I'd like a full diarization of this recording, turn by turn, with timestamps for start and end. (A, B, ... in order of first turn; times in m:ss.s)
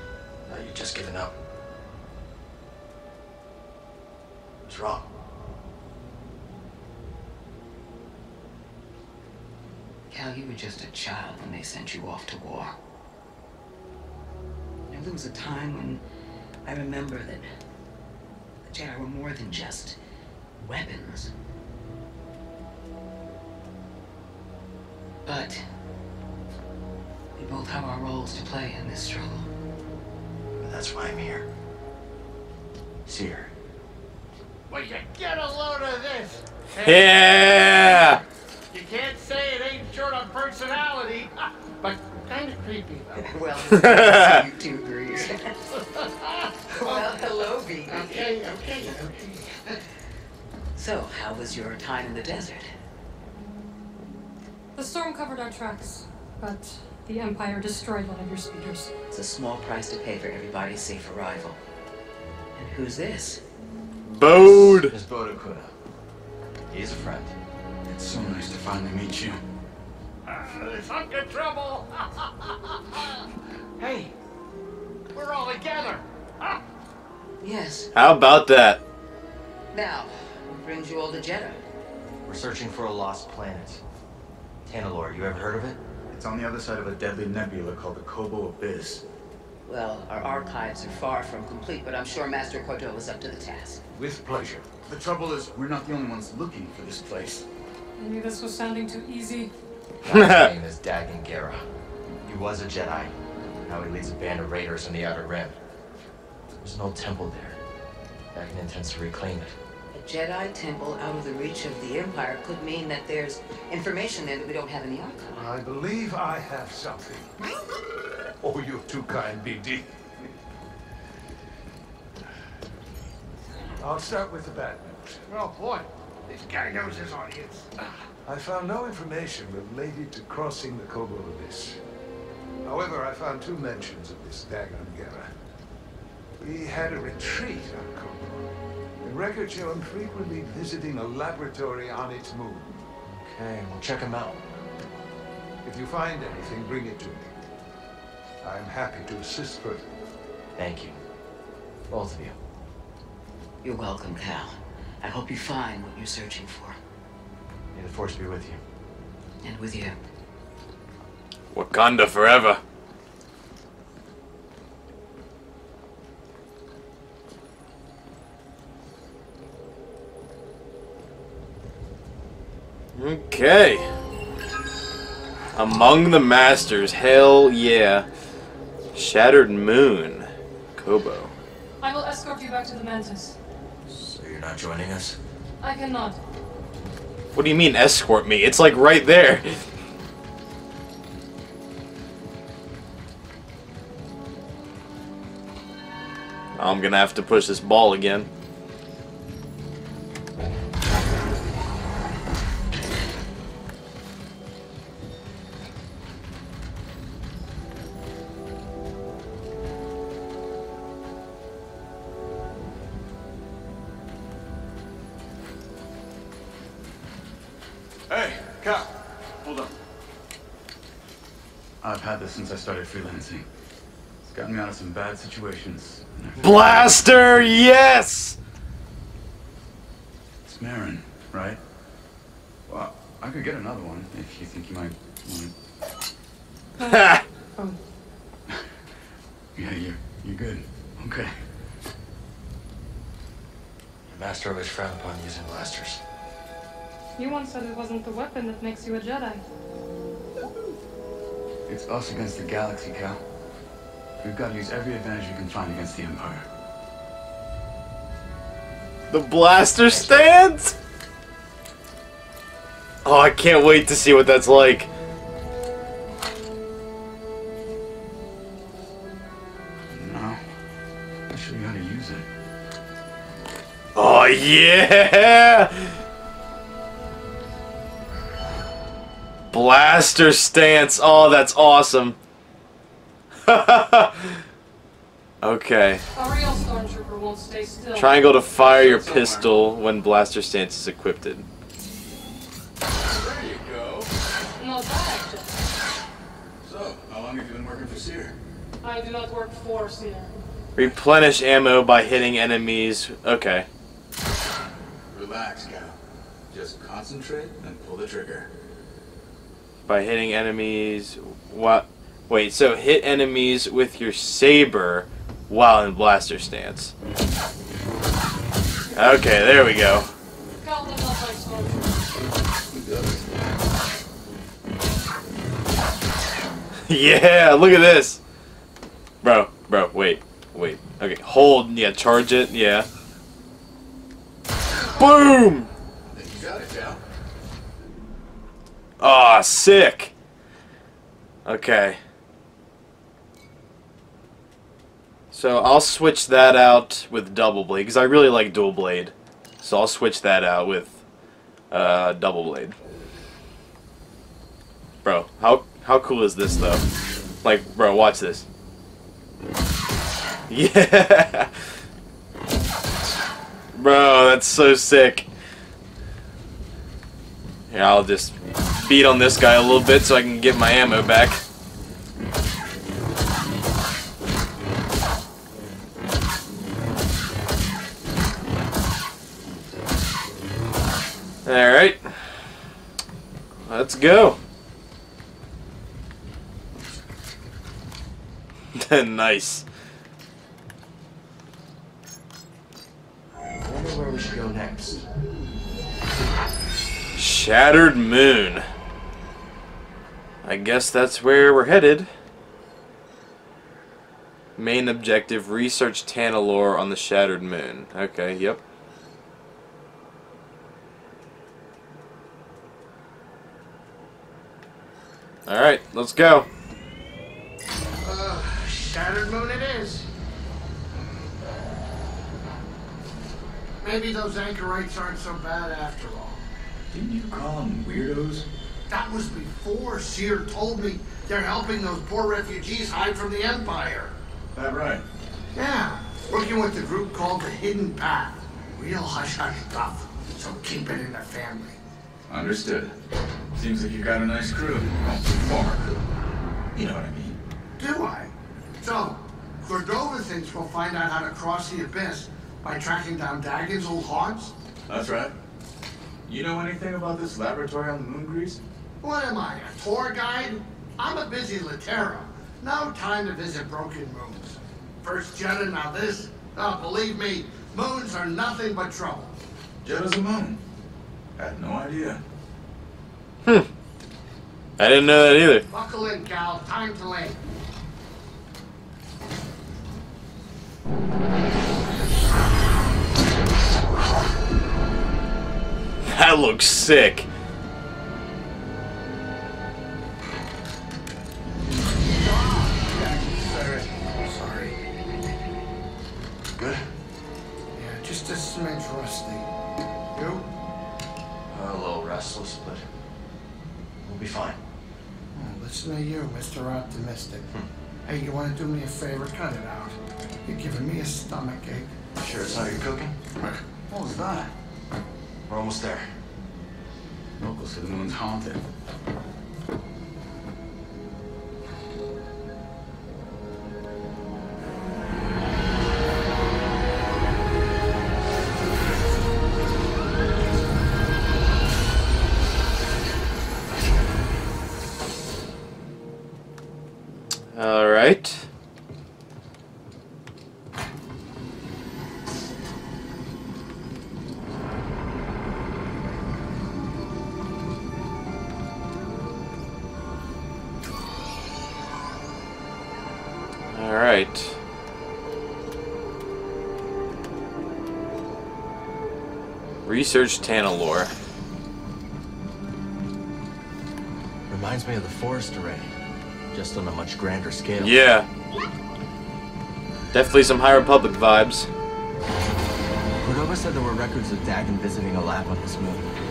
0:00.4-0:01.3 A
0:04.6-0:05.0 A
0:10.1-0:12.8 B
0:14.9-0:16.0 B
0:16.6-0:17.4 B
0:18.6-0:20.0 B
0:20.6-0:21.3 B
0:25.2-0:25.6 B
0:27.4-0:29.5 B
0:30.6-0:31.5 A
0:33.0-0:33.5 A
0:34.7-0:43.3 C
0:36.8-0:38.2 D
0:43.2-0:45.4 B
0:43.7-0:44.4 D
0:45.8-0:49.7 C
0:46.7-0:48.4 B
0:50.7-0:52.7 B
0:54.8-0:58.9 E
0:59.1-1:01.6 B
1:02.5-1:03.4 B
1:04.1-1:04.9 D
1:04.2-1:05.7 A
1:06.7-1:07.3 A
1:07.8-1:09.4 F
1:10.2-1:14.1 C
1:15.1-1:16.6 C
1:17.4-1:17.9 B
1:17.9-1:18.8 D
1:19.7-1:21.6 B
1:22.2-1:23.8 A
1:24.6-1:25.8 A
1:26.1-1:29.0 F
1:29.6-1:33.8 B
1:33.9-1:34.7 G
1:34.9-1:37.4 F
1:38.0-1:39.5 E
1:40.0-1:40.5 D
1:40.0-1:41.6 A
1:42.2-1:43.1 A
1:43.6-1:45.6 A
1:46.6-1:47.6 A
1:48.3-1:49.5 A
1:49.9-1:55.3 B
1:55.3-1:57.3 G
1:58.4-2:00.3 G
2:03.8-2:05.2 G
2:05.3-2:07.9 C
2:08.2-2:11.8 G
2:12.6-2:15.3 G
2:16.4-2:18.4 G
2:19.0-2:22.9 G
2:23.1-2:24.4 A
2:25.6-2:27.2 G
2:28.4-2:29.8 G
2:30.6-2:31.0 A
2:31.9-2:32.4 A
2:33.6-2:36.8 B
2:37.7-2:38.6 A
2:39.4-2:40.0 B
2:41.5-2:42.6 D
2:52.9-2:53.9 D
2:55.5-2:58.1 D
2:58.9-3:01.3 D
3:01.8-3:03.4 E
3:03.9-3:05.2 A
3:05.6-3:06.2 E
3:07.3-3:09.6 D
3:16.6-3:18.3 D
3:38.1-3:38.9 F
3:39.4-3:39.7 F
3:41.8-3:43.4 F
3:44.2-3:47.0 F
3:46.4-3:48.4 D
3:50.4-3:51.6 F
3:52.7-3:55.5 F
3:56.8-3:57.8 E
3:56.9-3:57.2 D
3:59.5-4:01.3 F
4:04.1-4:06.0 A
4:07.2-4:09.4 E
4:11.7-4:13.2 F
4:14.2-4:16.4 F
4:19.1-4:20.7 D
4:19.9-4:20.3 A
4:23.0-4:24.9 D
4:29.9-4:30.4 F
4:31.3-4:32.2 F
4:33.9-4:36.0 D
4:39.5-4:42.2 D
4:43.5-4:44.4 D
4:45.4-4:46.0 D
4:46.1-4:48.2 E
4:47.9-4:51.4 D
4:48.5-4:49.6 F
4:53.1-4:54.1 F
4:54.6-4:55.6 E
4:56.6-4:58.3 F
4:58.8-5:00.3 E
5:00.8-5:03.7 D
5:05.1-5:05.9 F
5:06.5-5:08.5 F
5:09.9-5:16.9 D
5:19.0-5:20.1 D
5:20.6-5:22.1 E
5:22.7-5:23.2 F
5:26.9-5:28.2 D
5:29.2-5:32.9 D
5:35.0-5:35.7 D
5:36.1-5:37.0 F
5:39.0-5:40.1 D
5:41.4-5:42.0 D
5:45.3-5:51.0 D
5:51.7-5:52.8 D
5:55.0-5:56.8 D
5:57.4-5:58.4 D
6:00.5-6:01.5 D
6:03.7-6:05.3 D
6:07.7-6:11.4 D
6:21.4-6:22.4 D
6:23.6-6:24.4 D
6:28.7-6:29.6 D
6:33.6-6:35.0 A
6:37.2-6:38.6 D
6:40.4-6:42.1 D
6:44.6-6:48.6 D
6:55.5-6:56.5 D
6:58.0-7:00.1 C
7:03.8-7:06.4 C
7:06.9-7:08.5 F
7:08.9-7:14.1 C
7:14.5-7:15.0 F
7:15.5-7:21.8 C
7:22.3-7:22.9 F
7:23.5-7:26.0 F
7:26.7-7:27.4 F
7:27.8-7:34.5 C
7:34.9-7:35.3 F
7:36.3-7:38.6 F
7:39.0-7:49.3 C
7:49.8-7:50.6 F
7:51.4-7:52.2 F
7:54.8-7:55.6 D
7:55.7-7:57.4 C
8:06.0-8:07.3 D
8:12.1-8:14.7 C
8:16.6-8:16.9 A
8:17.7-8:19.5 C
8:20.1-8:20.5 C
8:21.5-8:22.8 A
8:24.0-8:24.6 A
8:25.4-8:27.5 C
8:28.0-8:31.9 C
8:32.2-8:33.2 A
8:33.4-8:34.5 F
8:35.5-8:36.1 A
8:37.4-8:38.6 F
8:57.5-8:58.5 D
9:13.7-9:14.6 D
9:19.8-9:21.1 D
9:24.5-9:25.9 A
9:26.5-9:28.0 A
9:27.8-9:28.3 D
9:30.1-9:31.7 D
9:33.2-9:36.0 A